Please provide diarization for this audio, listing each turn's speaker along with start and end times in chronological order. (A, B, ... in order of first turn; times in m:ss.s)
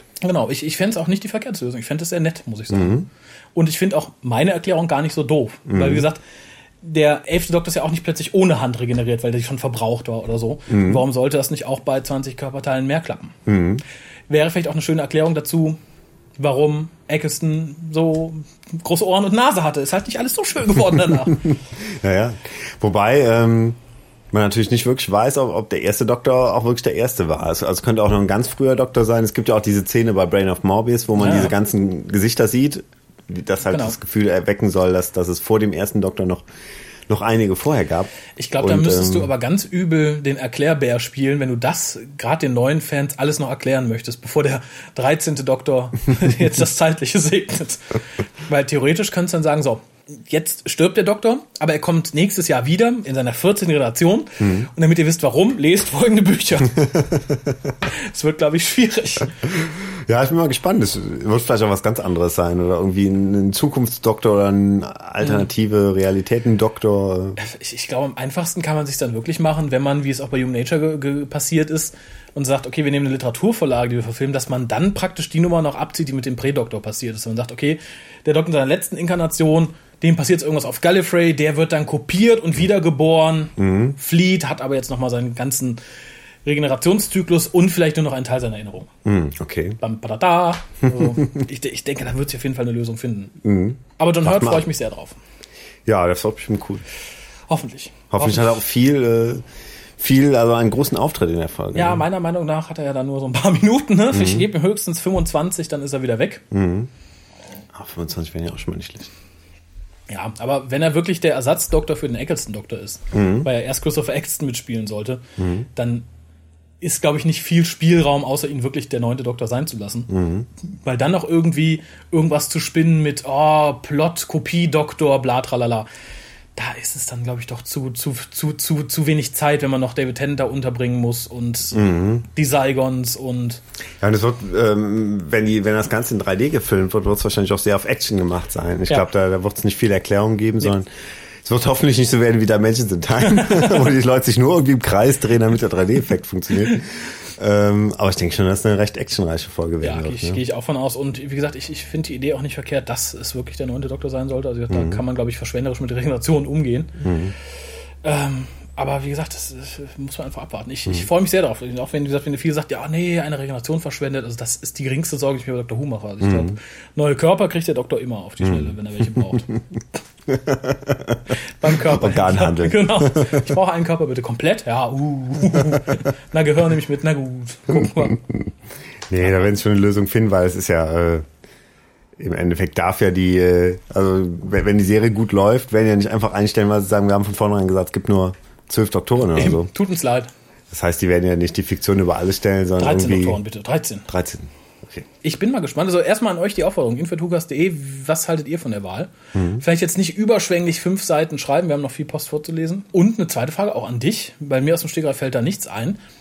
0:00.2-0:06.2 A
0:02.7-0:03.1 B
0:05.7-0:06.1 B
0:06.8-0:13.4 A
0:10.7-0:11.0 B
0:13.5-0:13.8 B
0:14.3-0:15.8 A
0:16.4-0:21.5 A
0:21.3-0:23.8 B
0:24.3-0:36.4 B
0:31.2-0:31.5 A
0:33.7-0:34.0 A
0:37.1-0:39.3 B
0:38.4-0:47.9 A
0:48.5-0:56.9 A
0:54.4-0:54.7 B
0:56.7-0:57.7 B
0:57.9-0:59.4 A
0:59.5-1:07.4 B
1:07.4-1:25.8 A
1:23.6-1:24.0 B
1:26.4-1:28.9 A
1:29.0-1:29.8 B
1:29.8-1:33.4 A
1:30.9-1:31.4 B
1:33.4-1:34.7 B
1:34.0-1:35.2 A
1:35.9-1:36.8 B
1:37.5-1:38.6 A
1:38.1-1:39.4 B
1:40.0-1:42.0 B
1:41.7-1:46.4 A
1:44.1-1:44.5 B
1:46.5-1:46.9 B
1:47.7-1:49.1 B
1:50.1-1:55.2 A
1:53.1-1:53.5 B
1:55.4-1:55.7 B
1:55.8-1:56.1 A
1:56.8-2:00.1 A
2:00.1-2:00.5 B
2:00.6-2:05.9 A
2:06.6-2:13.6 A
2:11.7-2:12.2 B
2:14.0-2:20.9 B
2:21.4-2:30.4 B
2:23.4-2:23.7 A
2:29.8-2:37.0 A
2:34.7-2:35.0 B
2:37.0-2:37.3 B
2:38.0-2:49.5 A
2:46.2-2:46.6 B
2:48.4-2:49.4 B
2:50.3-2:53.6 B
2:51.6-2:58.2 A
2:57.7-2:58.5 B
2:59.1-3:01.3 B
3:02.2-3:09.7 B
3:09.3-3:10.3 A
3:10.7-3:13.4 B
3:12.8-3:14.1 A
3:14.1-3:15.1 B
3:15.2-3:26.0 A
3:19.3-3:19.6 B